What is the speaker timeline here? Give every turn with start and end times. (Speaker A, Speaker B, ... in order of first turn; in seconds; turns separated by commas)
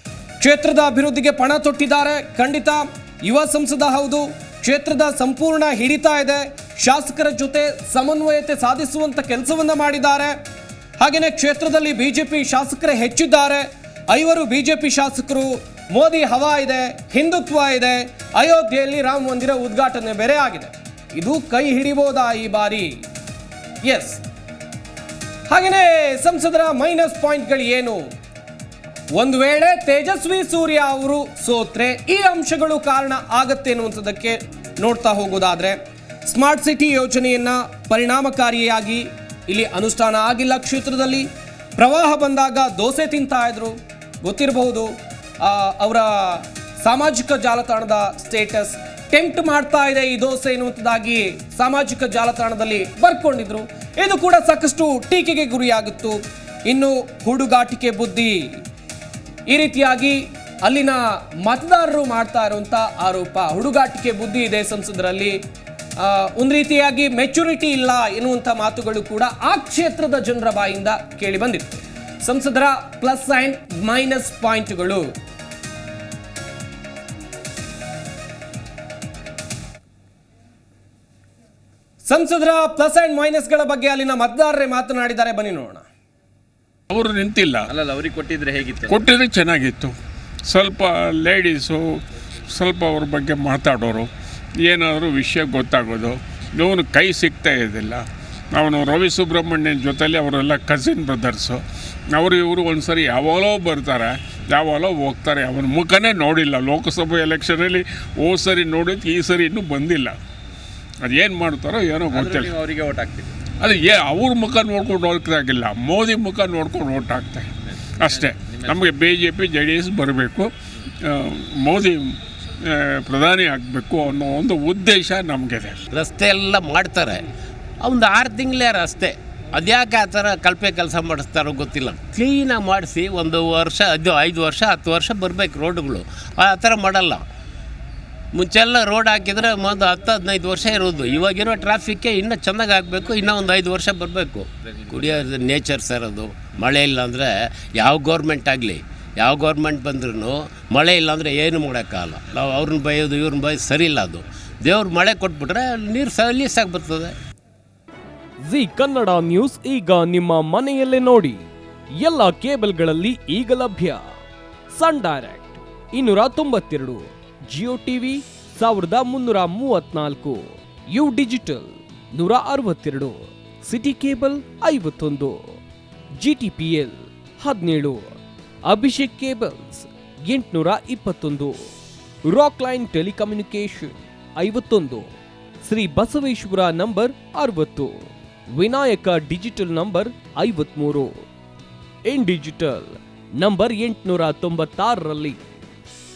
Speaker A: 0.4-10.3, Speaker A: 11.0-22.9, Speaker A: 23.8-24.2, Speaker A: 25.5-28.0, Speaker A: 29.2-58.4, Speaker A: 59.5-65.4, Speaker A: 66.0-75.0, Speaker A: 82.0-85.9, Speaker B: 86.9-87.7, Speaker C: 87.7-89.1, Speaker B: 88.9-89.9, Speaker B: 90.5-92.0, Speaker B: 92.5-94.1, Speaker B: 94.6-101.6, Speaker B: 102.1-110.2, Speaker B: 111.0-112.5, Speaker C: 112.1-113.4, Speaker B: 113.5-120.5, Speaker C: 117.7-118.8, Speaker B: 121.0-122.1, Speaker B: 122.7-125.8, Speaker D: 125.9-127.2, Speaker D: 127.8-137.2, Speaker D: 138.3-157.1, Speaker E: 158.4-161.4, Speaker E: 162.0-164.0, Speaker E: 164.7-175.6, Speaker E: 176.2-178.1, Speaker E: 178.7-181.7, Speaker E: 182.3-185.1, Speaker E: 185.6-191.1, Speaker E: 192.1-195.4